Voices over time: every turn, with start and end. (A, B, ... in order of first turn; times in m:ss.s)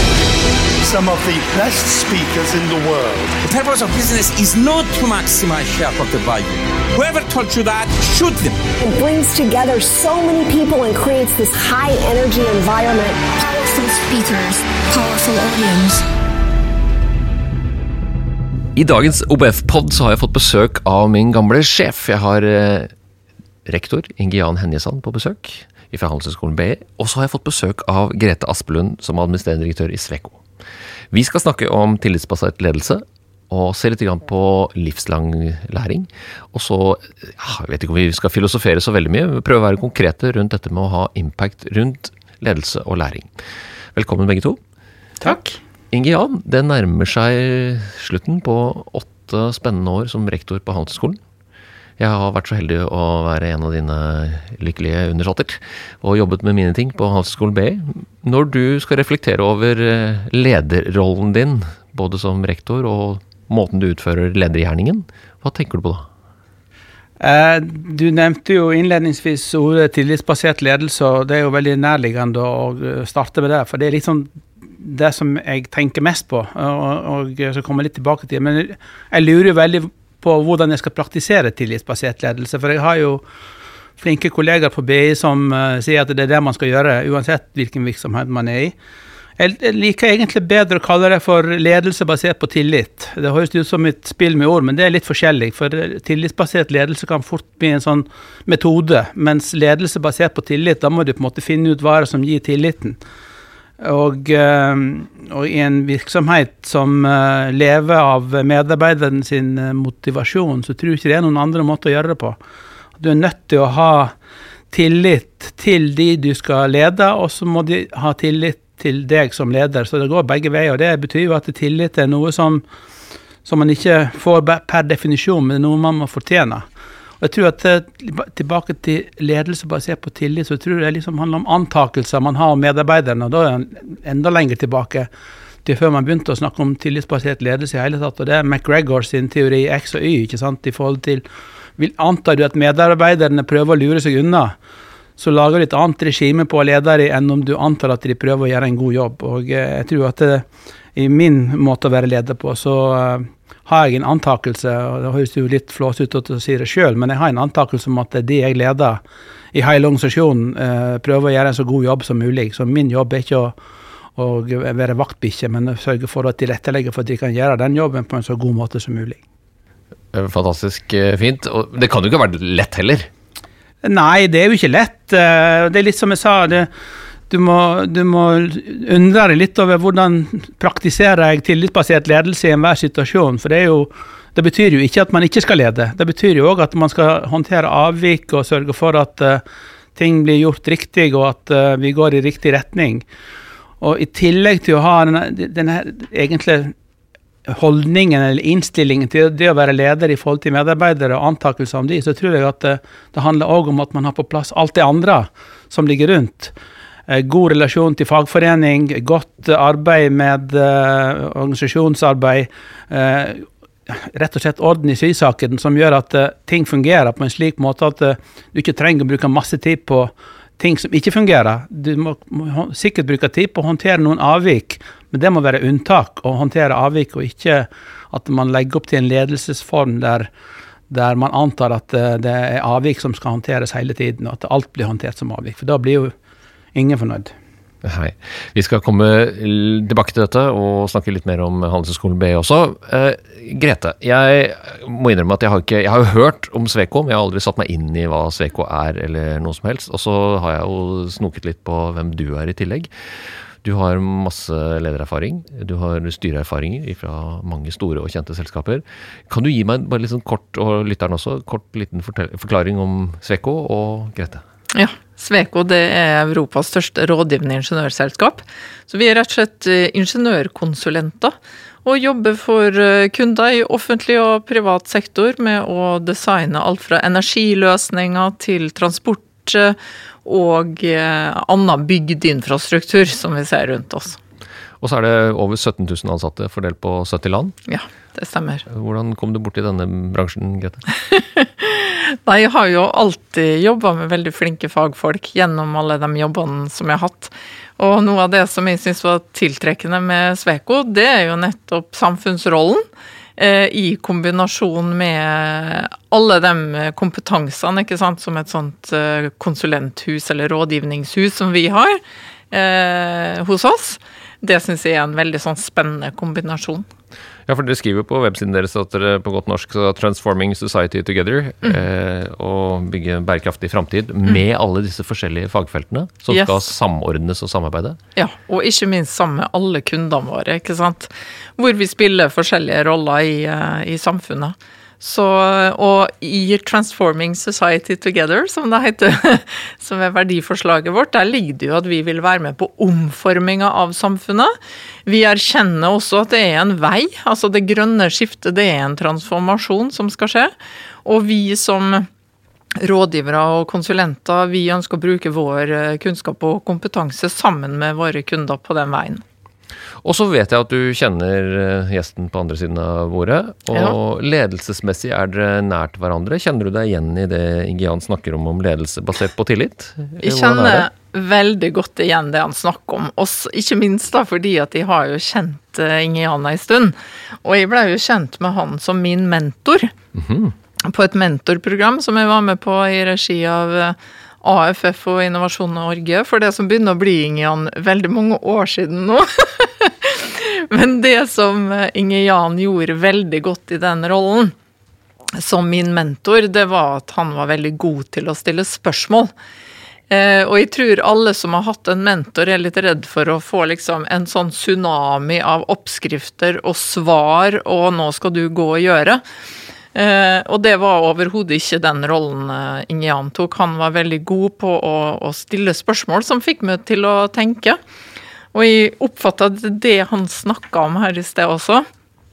0:00.8-0:03.4 A
0:03.4-0:08.6 B
0:08.8-0:13.3 C
0:13.3-0:16.0 D
0:18.8-0:22.9 E
0:23.7-0:30.4 E
0:31.1-0:43.3 E
0:44.0-0:44.6 E
0:45.2-0:45.5 F
0:45.9-0:51.2 E
0:52.0-1:06.1 E
1:07.2-1:23.2 G
1:24.0-1:28.8 G
1:29.4-1:43.0 G
1:43.8-1:52.4 G
1:53.0-1:54.1 G
1:54.7-2:02.6 G
2:03.4-2:06.7 G
2:07.2-2:15.1 G
2:15.6-2:21.2 G
2:21.8-2:24.6 G
2:25.2-2:39.0 G
2:39.5-2:43.6 G
2:44.2-2:49.2 G
2:50.1-2:53.1 E
2:53.8-2:56.7 G
2:57.3-3:09.4 G
3:09.9-3:13.0 G
3:13.8-3:16.7 G
3:17.5-3:26.5 G
3:27.1-3:50.3 G
3:50.9-3:56.2 G
3:56.8-3:57.3 G
3:57.8-4:12.9 E
4:13.6-4:24.4 E
4:24.7-4:44.2 F
4:44.8-4:47.6 E
4:47.7-4:48.6 F
4:48.7-4:50.8 E
4:51.1-5:02.9 F
5:03.4-5:12.0 F
5:12.5-5:16.9 F
5:17.5-5:28.0 E
5:26.3-5:26.6 F
5:28.2-5:44.5 F
5:45.1-5:50.5 F
5:51.0-5:52.1 F
5:52.8-5:59.2 F
6:00.0-6:10.9 E
6:10.2-6:19.9 F
6:20.1-6:20.5 E
6:20.8-6:34.5 F
6:35.4-6:39.3 F
6:40.1-6:49.2 F
6:49.9-6:57.8 F
6:58.5-7:01.9 F